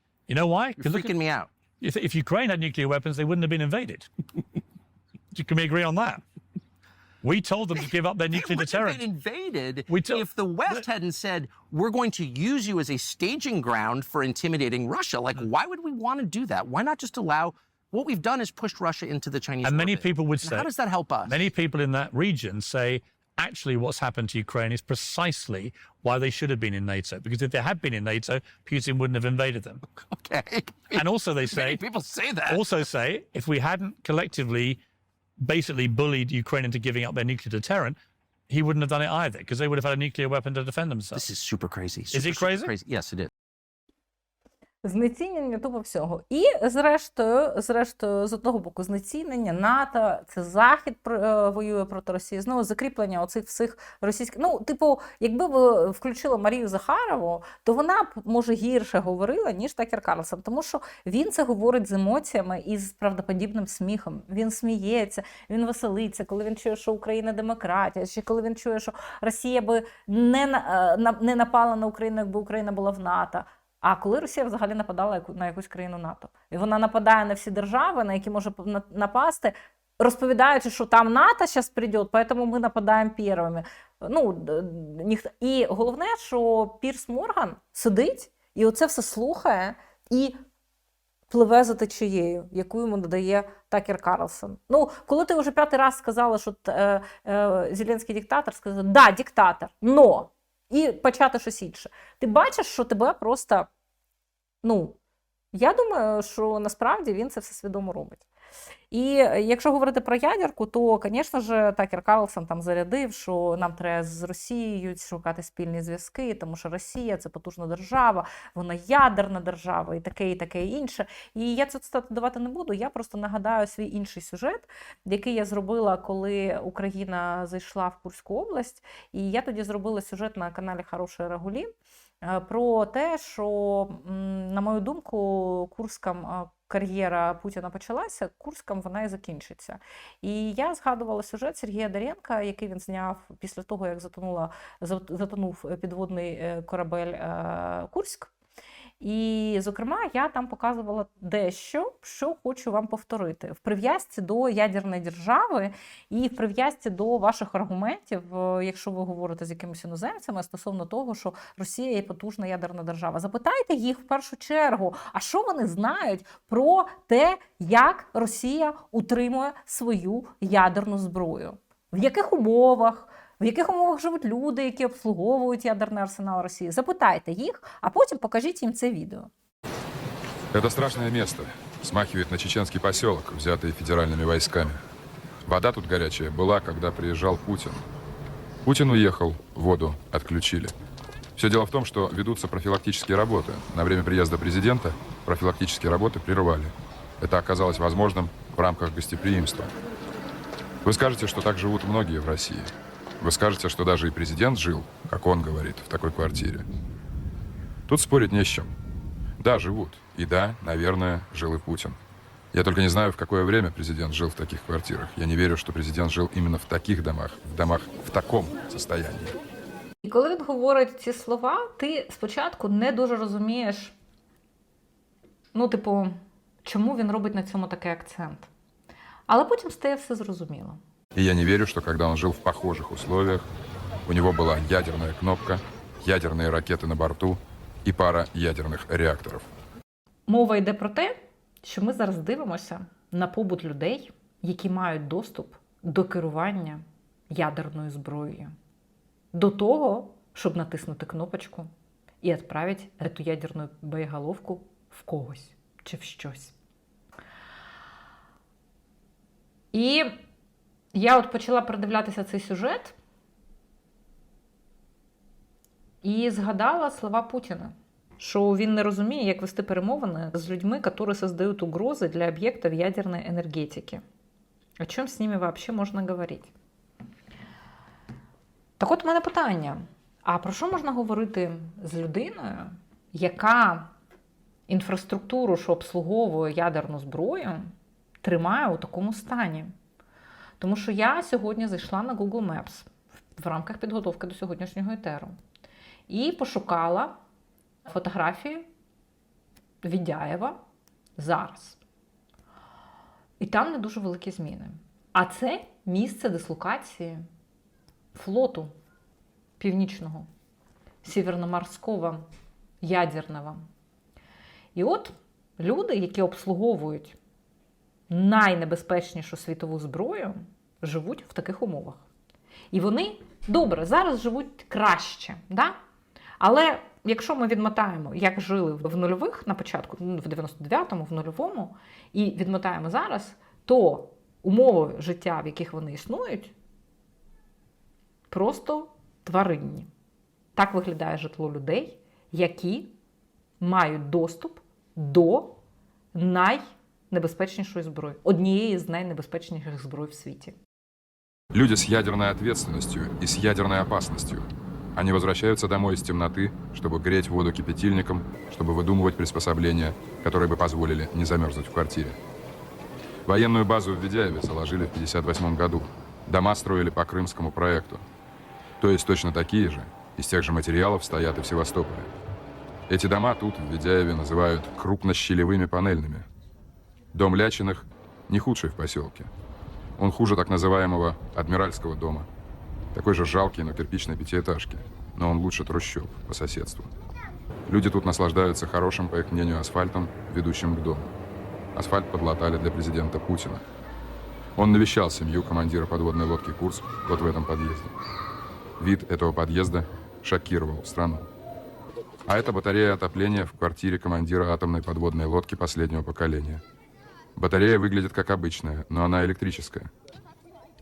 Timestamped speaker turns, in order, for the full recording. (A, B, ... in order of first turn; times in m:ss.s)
0:00.3-0:01.1 A
0:00.8-0:01.5 B
0:01.8-0:04.1 A
0:05.3-0:06.2 A
0:07.2-0:09.0 A
0:07.8-0:21.4 B
0:09.9-0:10.2 A
0:19.6-0:20.7 A
0:21.3-0:29.8 A
0:30.0-0:32.6 B
0:30.9-0:31.8 A
0:32.5-0:34.8 A
0:35.4-0:38.0 A
0:38.5-0:41.3 A
0:41.1-0:43.3 B
0:42.1-0:42.7 A
0:44.8-1:30.4 C
1:31.3-1:43.7 C
1:44.6-1:45.0 C
1:45.5-1:48.2 C
1:48.9-2:11.7 C
2:12.2-2:28.3 C
2:29.0-2:59.3 C
3:00.5-3:04.8 D
3:05.4-3:07.8 D
3:08.6-3:10.8 D
3:11.4-3:19.7 D
3:20.8-3:26.7 D
3:27.9-3:28.7 D
3:29.4-3:32.0 D
3:32.5-3:39.4 D
3:40.0-3:44.0 C
3:45.5-3:48.5 C
3:49.3-3:50.8 C
3:51.2-3:53.5 D
3:54.1-3:59.5 D
4:00.3-4:08.5 C
4:09.3-4:11.7 C
4:12.2-4:16.5 C
4:19.7-4:20.2 C
4:20.9-4:23.0 C
4:26.0-4:34.0 C
4:34.8-4:36.5 C
4:38.8-4:43.9 C
4:44.7-4:47.7 C
4:48.2-4:49.7 C
4:50.6-4:55.4 C
4:56.1-4:57.2 C
4:57.8-4:58.7 C
4:59.8-5:00.6 C
5:01.2-5:01.8 C
5:03.4-5:07.3 C
5:08.2-5:08.7 C
5:09.6-5:10.3 C
5:11.0-5:12.2 C
5:12.8-5:13.6 C
5:14.8-5:17.2 C
5:18.1-5:22.0 C
5:22.7-5:25.8 C
5:26.4-5:36.5 C
5:38.3-5:39.9 C
5:40.6-5:43.0 C
5:43.6-5:45.6 C
5:46.1-5:50.6 C
5:51.5-6:02.2 D
6:03.3-6:08.0 D
6:08.8-6:12.2 D
6:12.9-6:16.3 D
6:17.1-6:19.3 D
6:20.0-6:22.3 D
6:22.9-6:26.9 D
6:27.7-6:31.1 D
6:31.8-6:33.6 D
6:34.6-6:37.9 D
6:38.8-6:41.3 D
6:42.3-6:46.6 D
6:47.4-6:49.9 D